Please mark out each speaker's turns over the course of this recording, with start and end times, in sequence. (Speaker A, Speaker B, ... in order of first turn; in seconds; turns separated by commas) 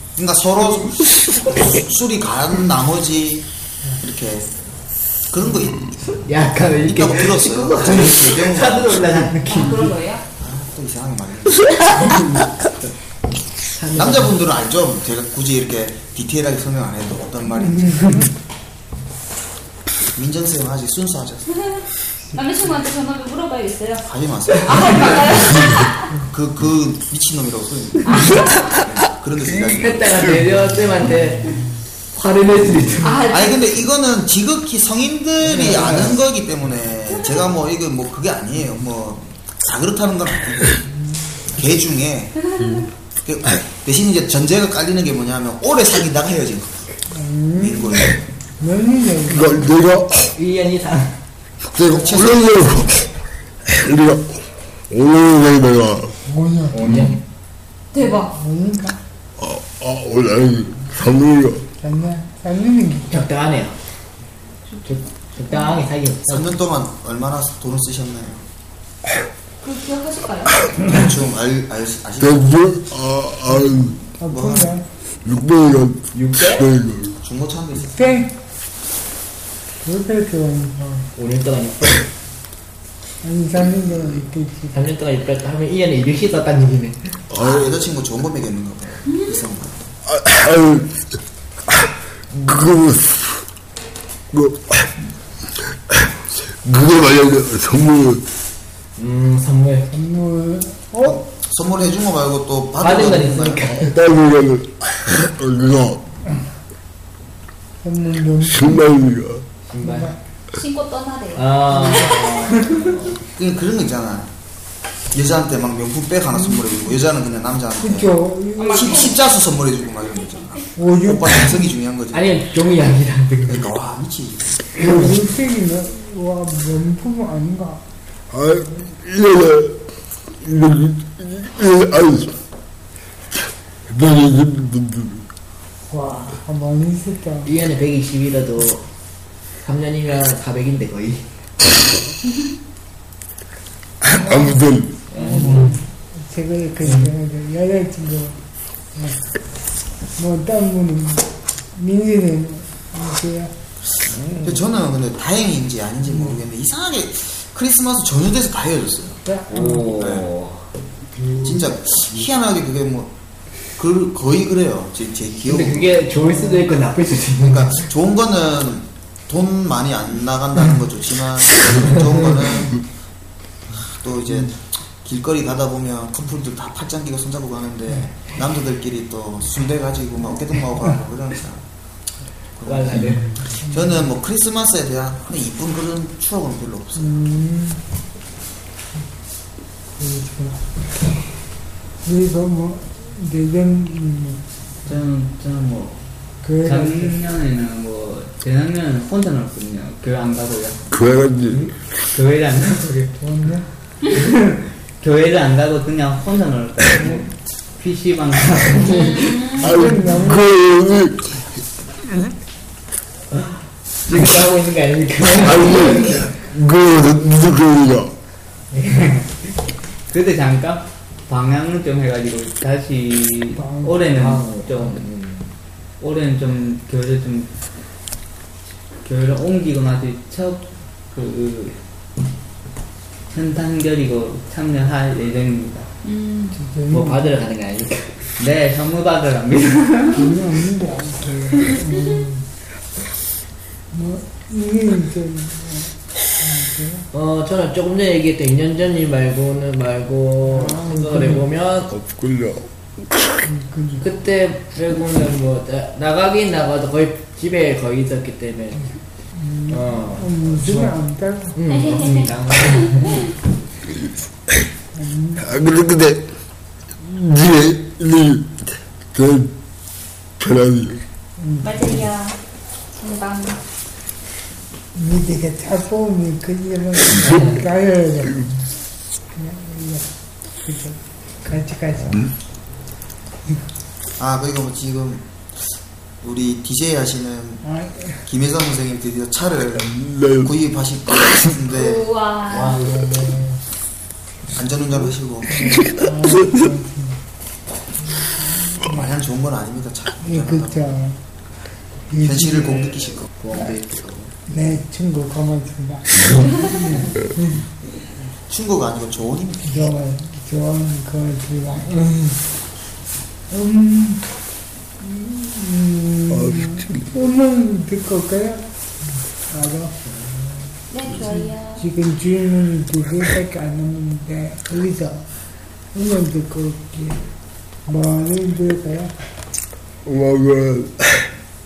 Speaker A: 0.2-3.5, Speaker A: 4.0-4.5, Speaker A: 5.3-5.8, Speaker B: 6.2-9.9, Speaker A: 6.8-9.4, Speaker C: 9.5-10.2, Speaker A: 10.4-11.9, Speaker B: 11.9-12.8, Speaker B: 13.7-14.3, Speaker A: 13.9-18.3, Speaker D: 18.0-18.3, Speaker A: 20.1-21.5, Speaker C: 22.3-26.1, Speaker A: 24.1-25.6, Speaker A: 26.3-30.2, Speaker C: 28.1-28.5, Speaker B: 29.7-31.6, Speaker B: 32.1-33.2, Speaker C: 33.0-33.7, Speaker A: 33.3-40.8, Speaker B: 35.5-36.2, Speaker A: 41.5-42.4, Speaker C: 42.4-42.9, Speaker A: 43.2-46.9, Speaker D: 47.1-49.7, Speaker A: 47.5-48.2, Speaker E: 49.3-50.3, Speaker B: 50.4-51.2, Speaker E: 51.7-53.1, Speaker A: 51.8-52.6, Speaker E: 53.7-56.1, Speaker D: 56.3-56.8, Speaker B: 56.7-57.2, Speaker E: 56.8-57.1, Speaker C: 57.9-58.3, Speaker D: 58.0-59.0, Speaker E: 59.4-61.6, Speaker D: 61.8-63.3, Speaker B: 63.1-63.8, Speaker C: 64.7-65.8, Speaker B: 64.9-66.5, Speaker A: 66.3-68.5, Speaker C: 69.6-70.6, Speaker A: 70.8-72.5, Speaker E: 72.2-74.0, Speaker D: 74.2-74.9, Speaker A: 74.3-74.7, Speaker E: 75.2-77.2, Speaker B: 76.1-76.7, Speaker A: 77.2-78.2, Speaker D: 78.0-78.3, Speaker D: 79.8-81.1, Speaker B: 81.2-82.1, Speaker D: 83.2-84.8, Speaker B: 84.7-87.2, Speaker E: 87.3-87.7, Speaker A: 87.3-89.9, Speaker C: 89.1-89.4, Speaker E: 90.1-91.0, Speaker E: 92.4-93.4, Speaker E: 94.3-94.9, Speaker E: 95.9-98.2, Speaker B: 99.0-99.9, Speaker D: 99.9-101.2, Speaker A: 101.0-103.7, Speaker B: 102.8-104.0, Speaker E: 103.8-106.0, Speaker D: 107.8-108.8, Speaker E: 108.5-109.4, Speaker B: 109.7-110.1, Speaker D: 109.8-110.2, Speaker C: 110.6-112.2, Speaker B: 111.3-113.2, Speaker D: 111.8-112.9, Speaker A: 113.4-114.3, Speaker A: 115.1-122.4, Speaker D: 116.4-116.7, Speaker D: 117.8-119.1, Speaker C: 118.6-119.1, Speaker D: 120.8-121.5, Speaker B: 122.1-123.7, Speaker A: 123.5-124.6, Speaker D: 124.8-127.8, Speaker E: 128.3-129.8, Speaker E: 130.4-132.4, Speaker E: 133.9-135.3, Speaker D: 135.9-137.5, Speaker B: 137.4-138.9, Speaker B: 139.6-141.3, Speaker E: 144.1-145.5, Speaker D: 144.2-144.6, Speaker B: 145.1-145.7, Speaker D: 145.2-148.4, Speaker D: 150.2-153.5, Speaker A: 154.4-159.2, Speaker D: 159.3-159.8, Speaker B: 159.5-160.7, Speaker A: 159.9-160.3, Speaker A: 161.4-163.1, Speaker A: 163.8-166.1, Speaker B: 165.5-167.9, Speaker D: 166.2-166.6, Speaker A: 167.4-172.8, Speaker A: 173.9-181.7, Speaker A: 182.6-187.2, Speaker B: 182.7-183.3, Speaker D: 187.0-187.8, Speaker D: 190.0-190.7, Speaker D: 192.1-194.4, Speaker F: 194.8-196.0, Speaker D: 196.4-197.2, Speaker F: 196.6-200.8, Speaker E: 200.9-201.7, Speaker F: 202.1-203.1, Speaker D: 203.1-203.7, Speaker F: 204.1-209.4, Speaker C: 208.8-209.6, Speaker E: 209.6-211.4, Speaker D: 209.6-210.5, Speaker B: 213.3-216.3, Speaker E: 215.4-218.1, Speaker B: 218.8-219.2, Speaker F: 220.1-225.1, Speaker D: 223.6-223.9, Speaker B: 224.1-225.5, Speaker F: 226.0-227.5, Speaker F: 229.0-231.8, Speaker F: 233.3-235.9, Speaker C: 236.0-236.6, Speaker D: 236.5-237.3, Speaker B: 236.9-238.1, Speaker F: 238.4-240.3, Speaker D: 240.1-242.4, Speaker D: 243.9-247.1, Speaker B: 247.1-251.9, Speaker D: 250.5-251.5, Speaker E: 251.9-252.7, Speaker D: 253.4-254.1, Speaker B: 254.0-258.9, Speaker D: 259.4-261.6, Speaker B: 259.7-261.0, Speaker B: 261.5-263.3, Speaker C: 261.7-263.3, Speaker D: 265.0-265.4, Speaker E: 265.4-266.3, Speaker E: 267.0-268.6, Speaker E: 269.1-269.6, Speaker E: 270.4-271.0, Speaker D: 271.4-271.9, Speaker C: 271.6-272.4, Speaker C: 272.9-273.6, Speaker D: 274.9-278.5, Speaker D: 279.3-280.1, Speaker D: 280.6-282.3, Speaker A: 284.2-285.3, Speaker A: 286.2-287.6, Speaker D: 287.6-288.2, Speaker A: 288.2-292.1, Speaker E: 289.8-290.5, Speaker C: 291.7-292.8, Speaker D: 292.6-293.3, Speaker A: 294.6-295.7, Speaker D: 295.5-297.2, Speaker A: 298.9-301.0, Speaker D: 300.2-301.2, Speaker D: 302.1-302.9, Speaker A: 302.2-303.3, Speaker B: 303.4-304.3, Speaker D: 304.5-307.6, Speaker A: 308.4-309.9, Speaker D: 309.7-312.4, Speaker D: 313.5-314.3, Speaker D: 315.0-318.6, Speaker E: 316.3-317.1, Speaker D: 319.5-320.0, Speaker C: 320.9-321.8, Speaker D: 321.2-325.3, Speaker D: 325.9-327.2, Speaker D: 327.9-329.1, Speaker E: 330.1-331.3